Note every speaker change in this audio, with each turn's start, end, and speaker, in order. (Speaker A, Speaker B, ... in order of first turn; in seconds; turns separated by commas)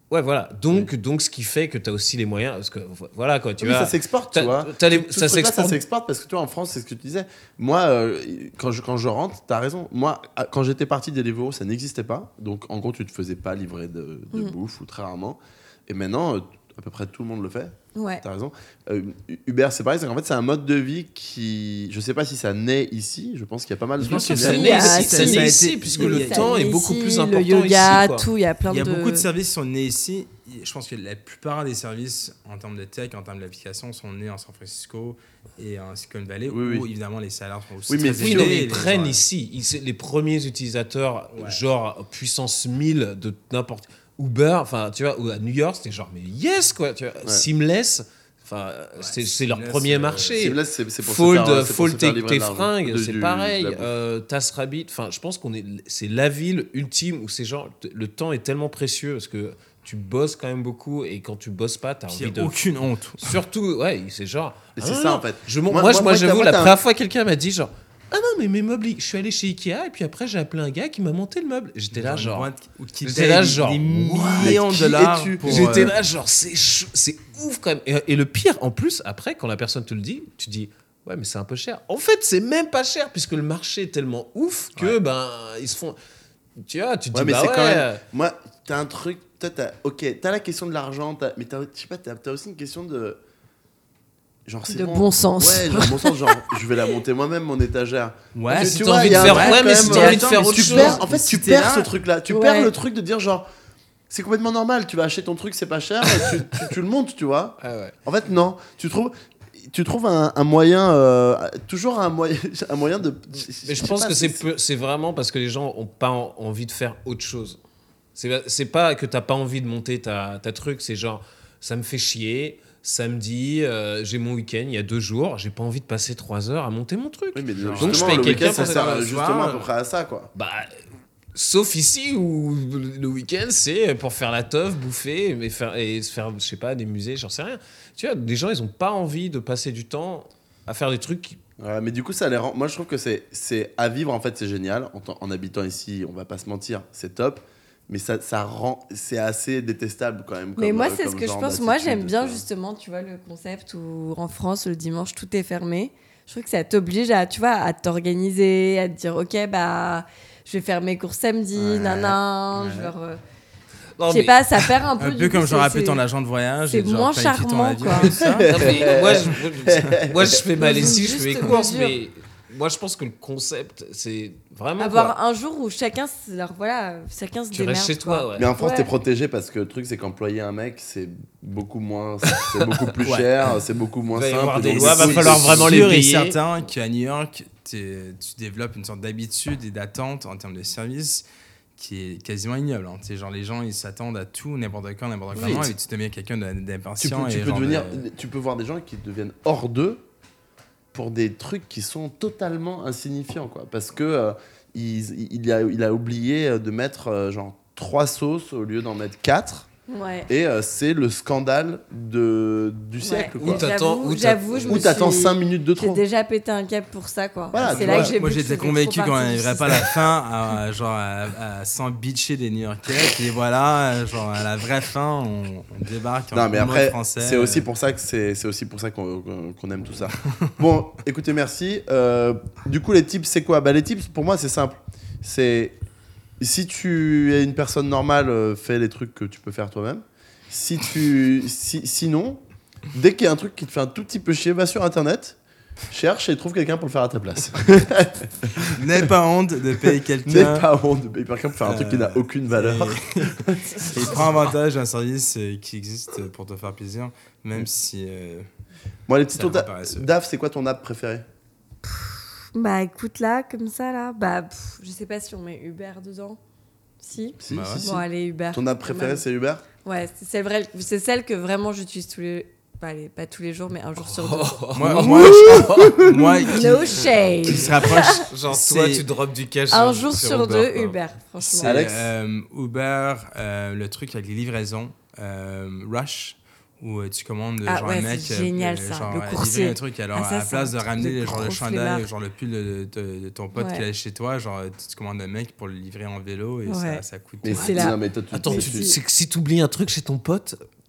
Speaker A: 0.1-5.8, Speaker B: 3.6-24.9, Speaker C: 17.9-18.2, Speaker D: 24.0-26.6, Speaker A: 24.0-28.3, Speaker C: 24.5-29.3, Speaker D: 28.7-39.2, Speaker B: 36.5-36.9, Speaker B: 37.9-38.7, Speaker A: 38.1-62.7, Speaker D: 41.3-41.6, Speaker D: 49.0-50.5, Speaker B: 50.4-53.9, Speaker D: 62.1-63.4, Speaker A: 63.2-72.5, Speaker B: 64.8-66.8, Speaker D: 71.9-75.9, Speaker A: 73.0-74.6, Speaker B: 74.4-75.8, Speaker A: 75.4-86.0, Speaker A: 86.6-88.0, Speaker B: 87.1-93.2, Speaker B: 94.5-103.5, Speaker C: 94.7-96.9, Speaker D: 98.3-101.9, Speaker A: 98.5-101.0, Speaker C: 102.3-102.7, Speaker B: 104.1-114.4, Speaker A: 107.6-108.0, Speaker A: 113.6-117.6, Speaker A: 118.2-129.0, Speaker B: 127.3-130.3, Speaker D: 127.7-129.7, Speaker A: 130.3-130.7, Speaker A: 131.3-141.4, Speaker B: 141.6-152.4, Speaker C: 150.6-163.2, Speaker B: 161.5-162.2, Speaker D: 162.5-162.9, Speaker A: 164.0-164.7, Speaker C: 164.1-166.0, Speaker D: 165.0-169.3, Speaker C: 166.7-168.1, Speaker B: 168.2-170.4, Speaker A: 168.4-175.2, Speaker C: 170.6-172.0, Speaker C: 174.8-178.9, Speaker A: 177.5-178.5, Speaker B: 178.3-186.0, Speaker A: 182.3-182.6, Speaker D: 183.0-183.3, Speaker A: 184.1-186.4, Speaker D: 184.6-191.2, Speaker D: 191.8-198.1, Speaker B: 195.3-195.7, Speaker B: 197.0-200.0, Speaker B: 200.9-209.7, Speaker C: 209.9-210.3, Speaker B: 210.3-213.7, Speaker C: 213.0-220.0, Speaker A: 213.4-214.9, Speaker B: 214.5-216.0, Speaker B: 217.5-218.1, Speaker D: 217.6-227.7, Speaker B: 226.3-235.8, Speaker B: 236.4-242.4, Speaker B: 242.9-245.4, Speaker B: 245.9-249.1, Speaker D: 248.8-250.7, Speaker B: 249.8-254.4, Speaker D: 251.6-258.5, Speaker B: 259.1-261.2, Speaker D: 259.3-260.1, Speaker C: 261.9-266.4, Speaker C: 267.0-269.2, Speaker B: 267.4-269.6, Speaker D: 267.5-267.9, Speaker C: 269.8-274.7, Speaker A: 274.0-277.7, Speaker D: 274.7-279.1, Speaker B: 275.1-276.2, Speaker C: 276.4-278.2, Speaker A: 278.3-281.0, Speaker C: 279.7-281.7, Speaker D: 281.6-297.7, Speaker B: 281.6-282.1, Speaker C: 287.6-292.1, Speaker C: 293.5-293.8, Speaker C: 296.7-297.0, Speaker B: 297.4-298.9, Speaker C: 297.5-298.0, Speaker A: 297.5-300.6, Speaker C: 298.5-298.9